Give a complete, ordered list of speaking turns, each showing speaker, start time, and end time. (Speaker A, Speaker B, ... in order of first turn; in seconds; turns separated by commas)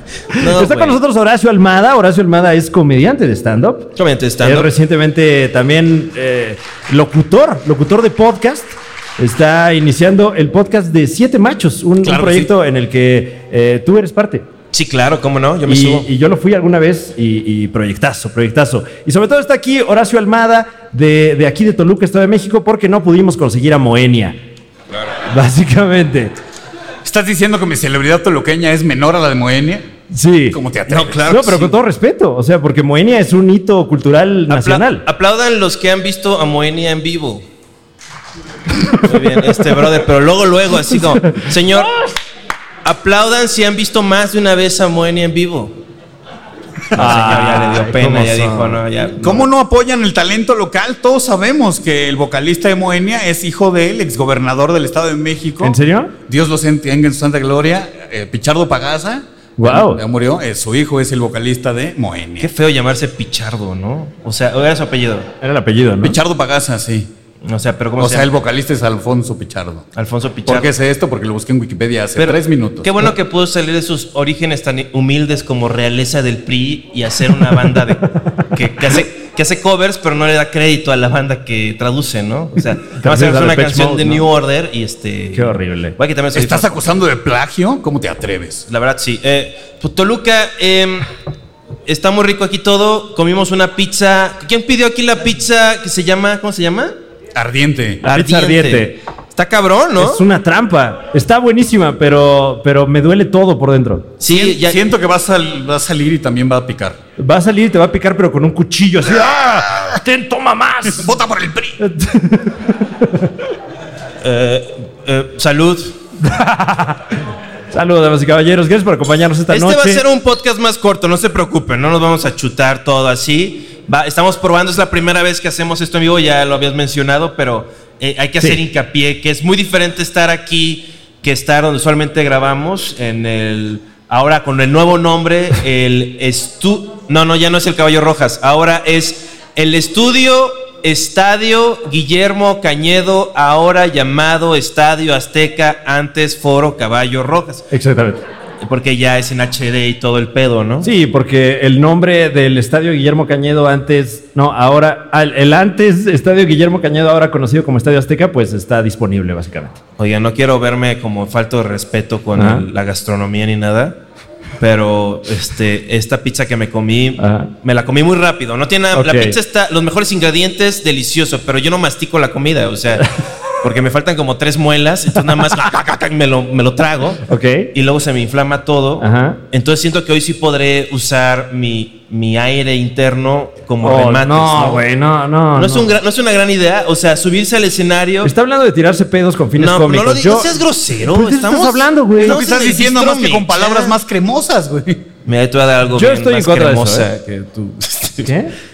Speaker A: 0.3-14.5, Speaker B: 0.3-1.0, Speaker B: 4.0-4.7, Speaker C: 12.0-12.5, Speaker B: 14.7-16.1, Speaker A: 15.7-24.4, Speaker A: 25.3-26.3, Speaker C: 27.0-29.9, Speaker A: 30.1-30.6, Speaker C: 30.5-31.3, Speaker B: 30.9-31.8, Speaker A: 31.3-35.0, Speaker B: 34.5-37.4, Speaker A: 38.8-39.4, Speaker B: 39.0-41.9, Speaker A: 41.1-42.1, Speaker B: 42.8-45.7, Speaker A: 46.9-48.8, Speaker B: 46.9-49.5, Speaker C: 49.2-62.5, Speaker A: 55.6-56.1, Speaker A: 59.6-60.0, Speaker B: 62.4-65.3, Speaker A: 65.4-66.2, Speaker C: 66.0-67.1, Speaker B: 67.4-68.3, Speaker C: 68.0-69.8, Speaker B: 69.9-70.7, Speaker C: 70.5-72.9, Speaker B: 72.2-86.8, Speaker A: 82.9-84.3, Speaker A: 85.3-86.0, Speaker C: 86.3-88.7, Speaker B: 88.7-91.1, Speaker B: 91.9-96.9, Speaker C: 97.3-98.0, Speaker A: 98.0-99.0, Speaker B: 98.0-100.2, Speaker A: 100.0-104.1, Speaker B: 104.2-104.9, Speaker C: 104.2-107.0, Speaker A: 107.2-111.1, Speaker C: 109.2-110.0, Speaker C: 110.9-111.8, Speaker A: 111.8-113.3, Speaker B: 114.2-115.9, Speaker A: 116.2-117.2, Speaker A: 117.7-120.0, Speaker B: 119.5-147.6, Speaker A: 147.7-148.2, Speaker B: 148.6-150.9, Speaker A: 150.8-159.8, Speaker B: 160.0-164.0, Speaker A: 162.3-162.7, Speaker B: 164.6-173.1, Speaker A: 167.2-167.5, Speaker A: 168.9-169.4, Speaker B: 173.6-184.8, Speaker A: 177.3-177.7, Speaker A: 179.0-179.4, Speaker A: 183.8-185.9, Speaker B: 185.5-188.3, Speaker A: 188.2-192.4, Speaker B: 189.6-193.9, Speaker C: 192.2-195.0, Speaker B: 195.2-198.3, Speaker A: 195.9-197.1, Speaker A: 198.2-198.5